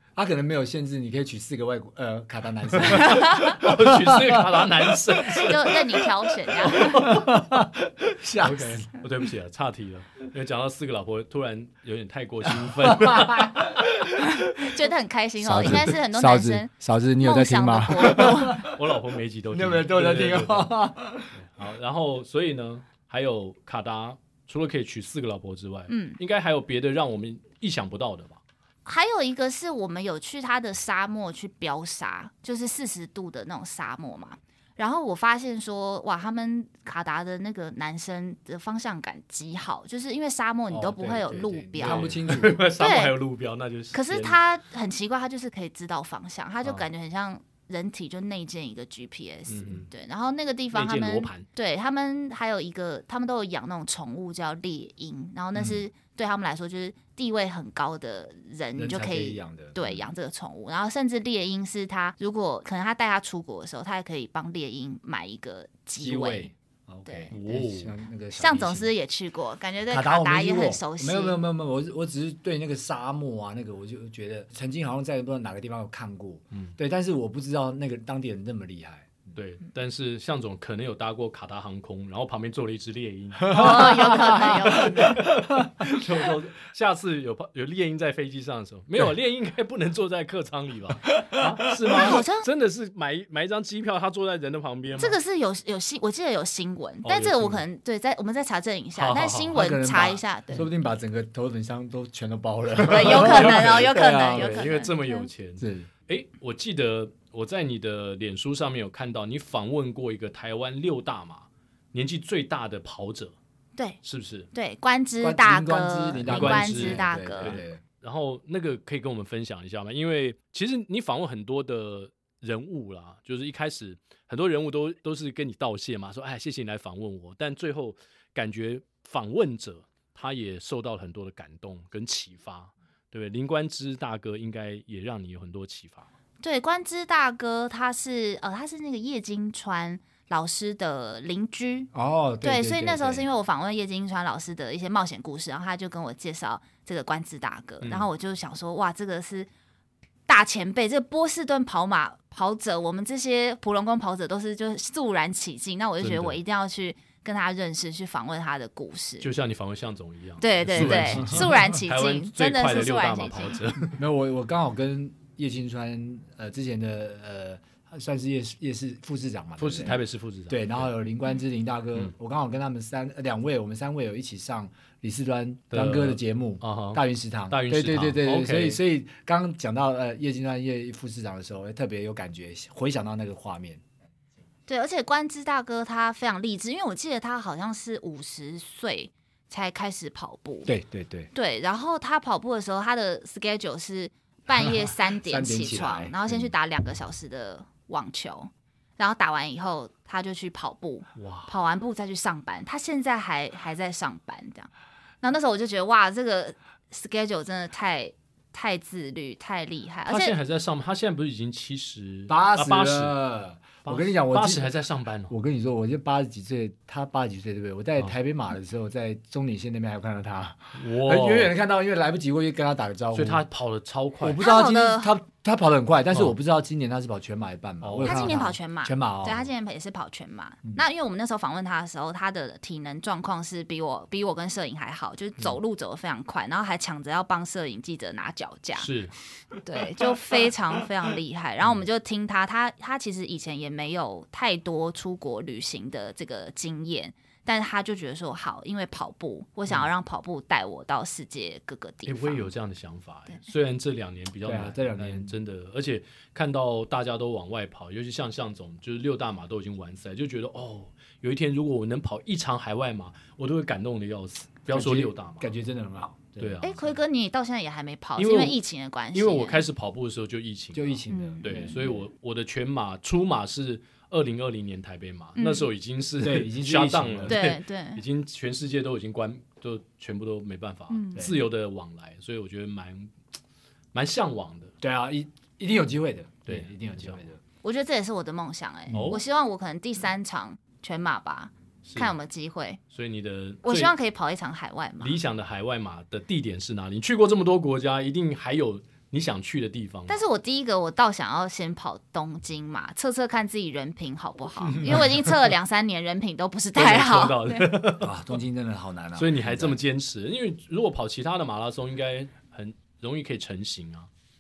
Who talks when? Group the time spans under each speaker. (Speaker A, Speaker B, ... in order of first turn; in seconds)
Speaker A: 0.2-5.9, 6.6-9.0, 12.5-13.8, 15.4-18.8, 19.5-21.4, 40.7-42.6, 58.8-60.0, 66.0-68.9, 69.9-79.3, 83.4-86.3, 91.1-92.2, 99.5-104.7, 105.6-105.9, 115.2-117.8, 141.9-143.3, 160.7-161.5, 164.0-183.8, 190.7-191.3, 194.6-196.5, 212.3-214.7, 215.3-223.4, 224.2-229.5, 254.4-255.3, 264.7-266.6, 270.7-272.0, 276.2-277.4, 284.8-287.4, 288.9-289.2, 308.0-309.8
Speaker B: 2.8-5.8, 6.7-7.4, 8.4-14.1, 18.2-20.8, 21.3-28.4, 41.8-44.4, 49.5-49.9, 50.7-51.5, 67.3-68.0, 79.3-95.2, 97.0-97.6, 99.0-99.6, 102.8-113.3, 114.0-114.5, 116.2-136.1, 147.8-148.1, 156.0-156.4, 159.2-164.0, 169.6-170.9, 175.7-178.8, 201.2-201.5, 210.1-213.2, 213.8-215.3, 220.8-221.6, 223.1-224.4, 227.8-228.5, 238.8-239.1, 252.1-265.5, 266.4-266.9, 268.2-268.6, 269.1-283.1, 283.9-284.7, 286.5-287.2, 288.9-289.2, 291.8-292.1, 292.9-293.9, 295.0-300.2, 306.8-308.1, 309.1-314.1
Speaker C: 2.9-3.6, 5.4-7.1, 14.3-18.7, 25.9-26.2, 28.9-42.1, 42.8-43.2, 43.9-66.5, 67.0-67.3, 68.4-71.4, 83.5-85.2, 91.9-92.5, 95.0-100.7, 102.8-105.3, 114.5-117.6, 136.4-141.9, 142.4-149.5, 150.3-159.3, 160.4-163.6, 184.7-190.7, 191.3-204.7, 205.2-210.4, 224.4-225.2, 228.0-238.9, 239.6-252.5, 266.6-269.6, 271.1-271.8, 275.4-275.7, 277.3-278.0, 280.9-281.3, 287.6-292.8, 293.6-295.2, 300.1-307.8